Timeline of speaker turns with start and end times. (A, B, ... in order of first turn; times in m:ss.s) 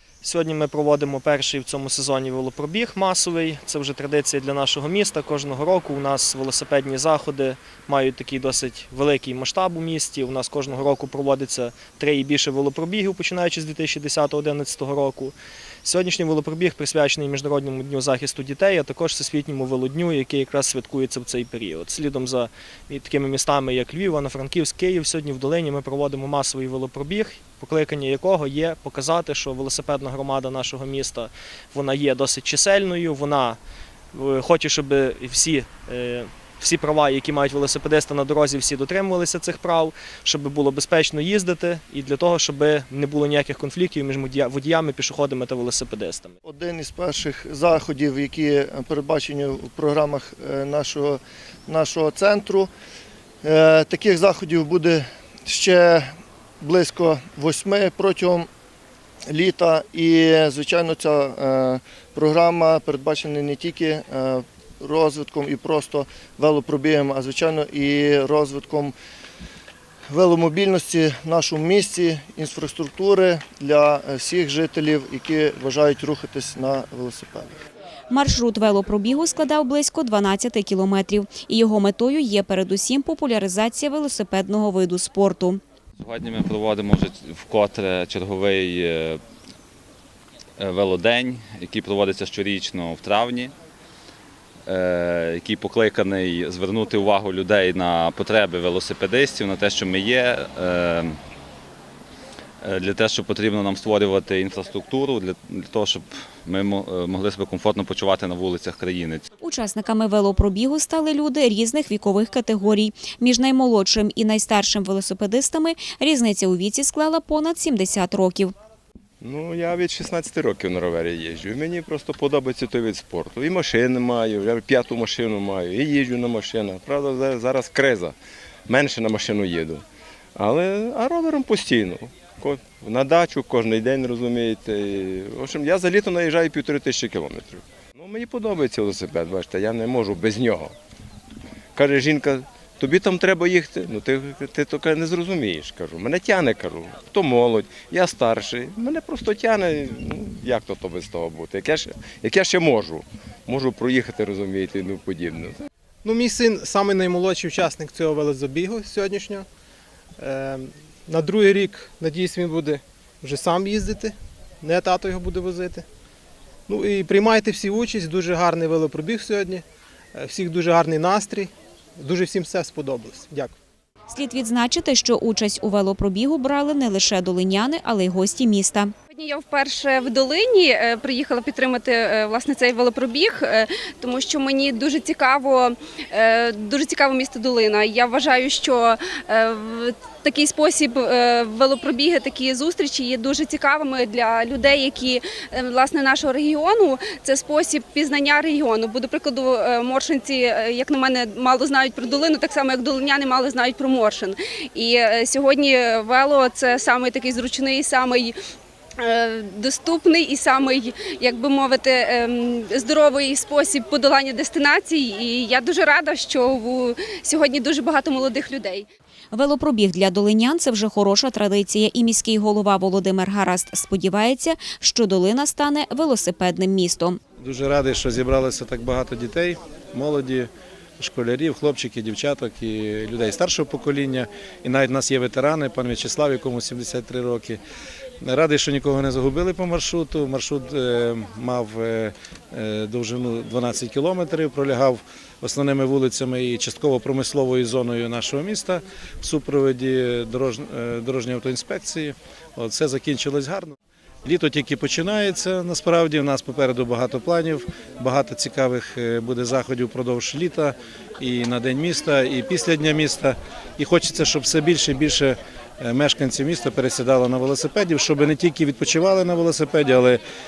0:00.2-0:33.6 A
0:34.1-0:46.3 A
0:46.4-0:52.7 B
0:53.4-0:58.5 B
0:59.3-1:09.0 B
1:10.1-1:17.6 B
1:18.1-1:25.6 C
1:26.0-1:29.2 D
1:30.6-1:33.5 D
1:34.7-1:41.2 D
1:42.6-1:49.2 D
1:49.4-1:58.5 C
1:59.2-2:08.2 E
2:08.7-2:09.8 E
2:10.4-2:20.7 E
2:21.8-2:35.6 E
2:36.0-2:39.5 F
2:40.2-2:45.8 F
2:46.7-2:49.6 F
2:50.2-2:53.6 F
2:54.1-2:58.9 C
2:59.1-3:28.4 G
3:29.0-3:38.9 G
3:39.3-3:47.2 C
3:47.4-3:57.6 H
3:58.2-4:30.2 H